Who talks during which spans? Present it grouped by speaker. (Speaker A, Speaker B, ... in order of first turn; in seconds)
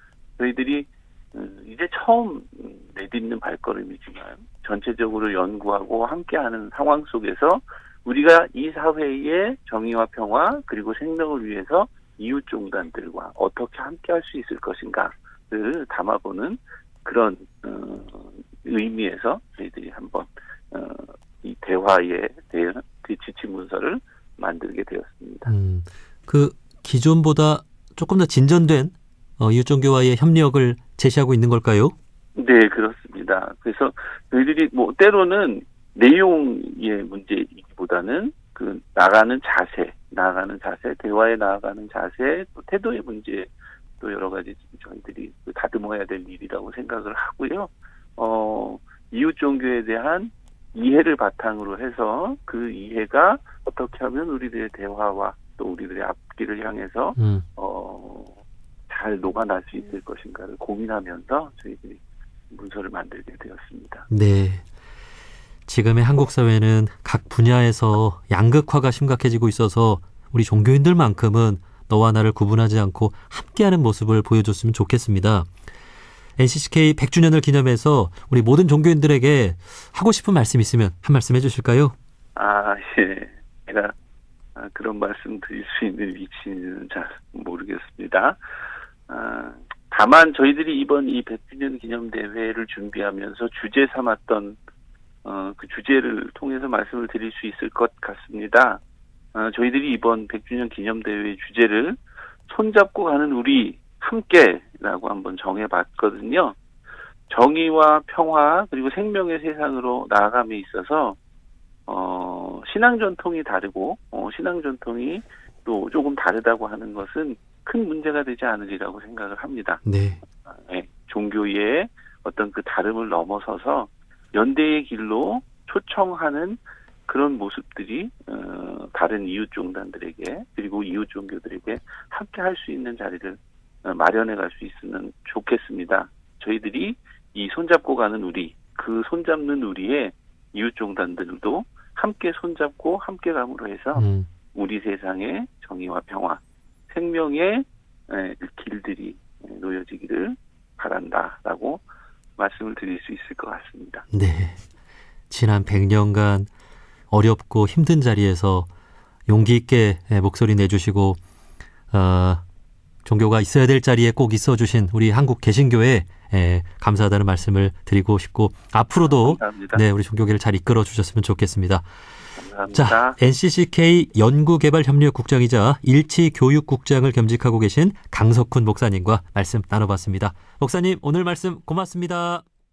Speaker A: 0.4-25.5, 32.3-64.1, 82.3-83.9, 84.5-88.4, 89.1-94.6, 95.2-98.8, 99.3-106.6, 107.3-111.2, 111.9-119.8, 120.4-151.8, 152.4-154.0, 169.0-169.8, 172.3-173.2
Speaker B: 25.4-31.9, 57.2-57.4, 64.1-64.6, 65.7-75.5, 76.4-81.9, 119.8-120.2, 143.9-144.3, 154.1-154.6, 155.3-156.5, 157.1-158.7, 159.3-161.2, 161.9-162.4, 163.0-171.8, 172.7-182.4